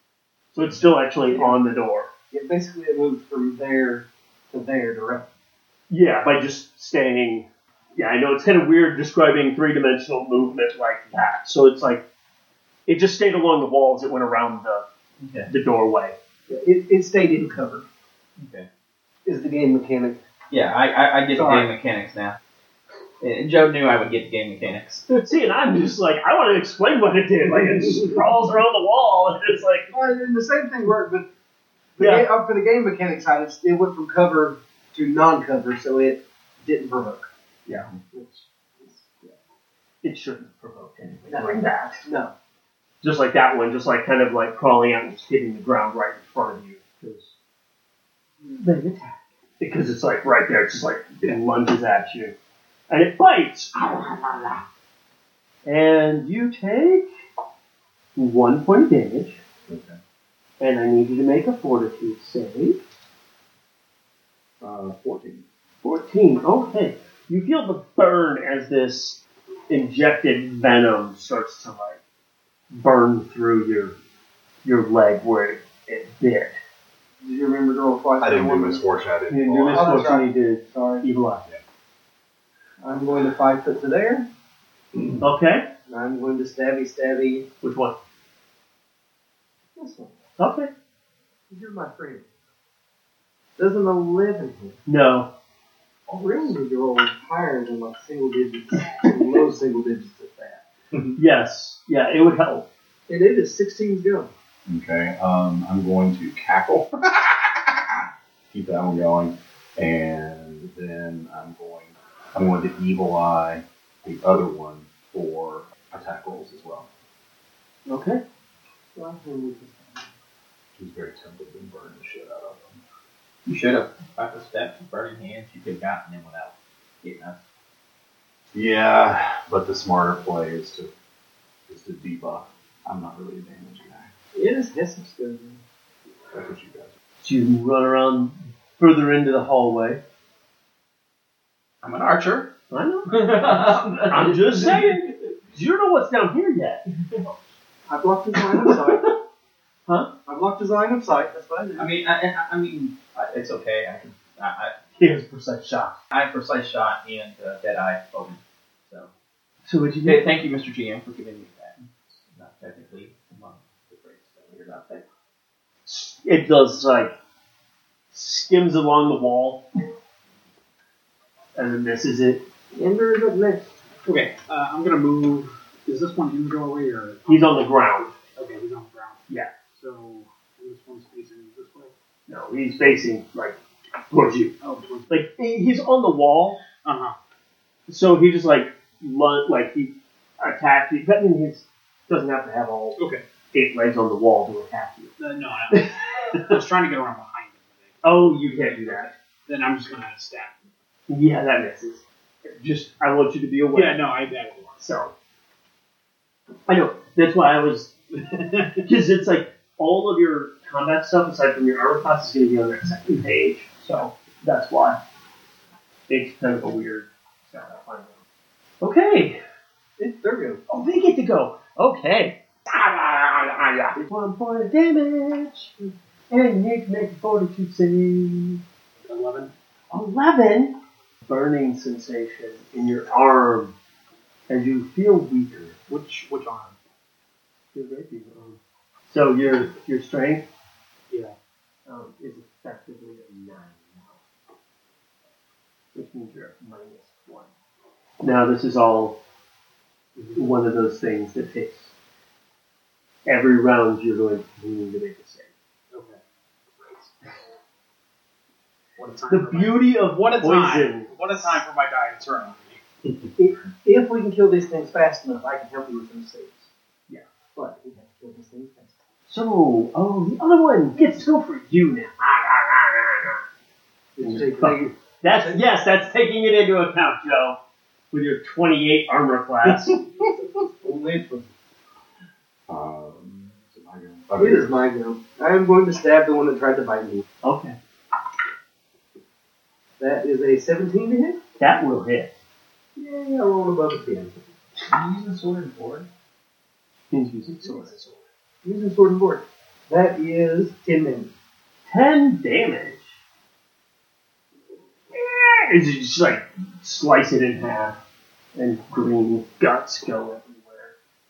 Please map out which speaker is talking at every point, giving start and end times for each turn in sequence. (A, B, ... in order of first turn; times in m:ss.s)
0:00.5-0:02.1 A
0:01.3-0:01.6 B
0:02.3-0:05.3 B
0:05.9-0:12.0 A
0:12.9-0:14.8 A
0:15.2-0:15.5 C
0:15.5-0:16.2 A
0:16.5-0:17.9 B
0:18.4-0:18.7 C
0:19.2-0:20.2 B
0:20.5-0:22.4 C
0:21.3-0:21.7 B
0:23.2-0:25.1 C
0:25.2-0:29.9 A
0:29.9-0:31.3 B
0:32.0-0:32.3 A
0:32.0-0:37.3 B
0:37.7-0:37.9 A
0:38.0-0:39.4 B
0:40.0-0:42.1 A
0:41.3-0:42.3 B
0:43.0-0:47.4 A
0:48.6-0:52.4 A
0:52.9-0:54.6 A
0:55.7-0:57.1 A
0:58.2-0:59.4 A
0:59.7-1:00.0 D
1:00.6-1:02.8 A
1:04.6-1:05.4 D
1:05.8-1:12.0 A
1:12.7-1:14.0 A
1:14.6-1:16.6 A
1:17.2-1:18.9 B
1:18.2-1:20.1 D
1:19.3-1:21.4 A
1:19.7-1:21.1 B
1:22.8-1:24.3 B
1:24.9-1:25.2 D
1:25.2-1:25.7 A
1:25.9-1:27.5 B
1:27.6-1:28.0 A
1:29.8-1:30.2 B
1:30.4-1:30.7 A
1:31.5-1:32.3 B
1:33.6-1:34.8 B
1:34.9-1:35.3 A
1:36.1-1:40.6 B
1:40.9-1:41.2 D
1:41.2-1:42.7 A
1:43.1-1:44.3 B
1:44.7-1:47.6 D
1:48.5-1:56.9 D
1:57.9-1:58.2 A
1:59.0-2:00.1 B
2:00.8-2:02.8 D
2:03.5-2:07.4 C
2:08.5-2:10.9 D
2:11.7-2:14.1 D
2:14.3-2:15.6 B
2:16.3-2:16.9 D
2:17.2-2:20.0 A
2:21.8-2:22.5 C
2:22.7-2:26.8 A
2:23.1-2:25.1 C
2:27.9-2:29.2 B
2:29.9-2:30.1 A
2:30.2-2:31.9 B
2:31.8-2:34.8 C
2:35.0-2:36.0 A
2:36.1-2:39.1 C
2:39.6-2:40.3 A
2:40.0-2:41.8 C
2:42.3-2:45.0 C
2:45.9-2:47.1 A
2:48.1-2:49.7 A
2:51.6-2:52.4 A
2:52.7-2:53.7 B
2:54.0-2:57.7 E
2:57.3-2:58.2 A
2:58.3-2:59.2 E
2:59.7-3:01.9 E
3:02.3-3:03.6 A
3:04.1-3:04.5 A
3:04.6-3:05.2 E
3:05.1-3:06.6 A
3:06.8-3:07.2 E
3:07.9-3:13.0 A
3:13.0-3:13.2 E
3:13.5-3:15.1 A
3:15.2-3:20.6 E
3:15.7-3:16.6 A
3:18.0-3:19.1 A
3:21.1-3:22.0 A
3:22.6-3:24.0 A
3:23.7-3:24.8 E
3:24.8-3:25.1 A
3:26.7-3:27.9 A
3:28.2-3:28.8 E
3:28.8-3:35.0 A
3:36.1-3:38.2 A
3:38.8-3:39.4 A
3:40.0-3:40.6 B
3:40.7-3:45.7 A
3:46.3-3:48.6 A
3:49.0-3:49.5 E
3:49.9-3:53.8 A
3:54.5-3:55.8 A
3:55.9-3:56.8 E
3:57.7-4:00.5 A
4:01.1-4:01.4 E
4:01.9-4:04.2 A
4:05.9-4:07.5 A
4:08.2-4:09.2 A
4:10.4-4:11.9 A
4:13.3-4:15.5 A
4:15.9-4:16.2 E
4:16.8-4:17.4 E
4:19.0-4:22.8 E
4:19.3-4:21.6 A
4:23.5-4:26.7 B
4:27.6-4:29.0 B
4:29.3-4:33.4 A
4:34.2-4:35.6 B
4:34.2-4:37.6 A
4:38.1-4:40.0 A
4:40.0-4:41.5 B
4:42.7-4:44.8 D
4:44.4-4:47.2 B
4:47.4-4:47.8 A
4:50.0-4:51.4 B
4:51.6-4:52.3 A
4:53.0-4:54.4 B
4:54.9-4:56.1 C
4:57.1-4:58.2 A
4:58.6-5:01.3 B
5:01.9-5:03.2 A
5:05.1-5:08.0 A
5:08.6-5:10.9 A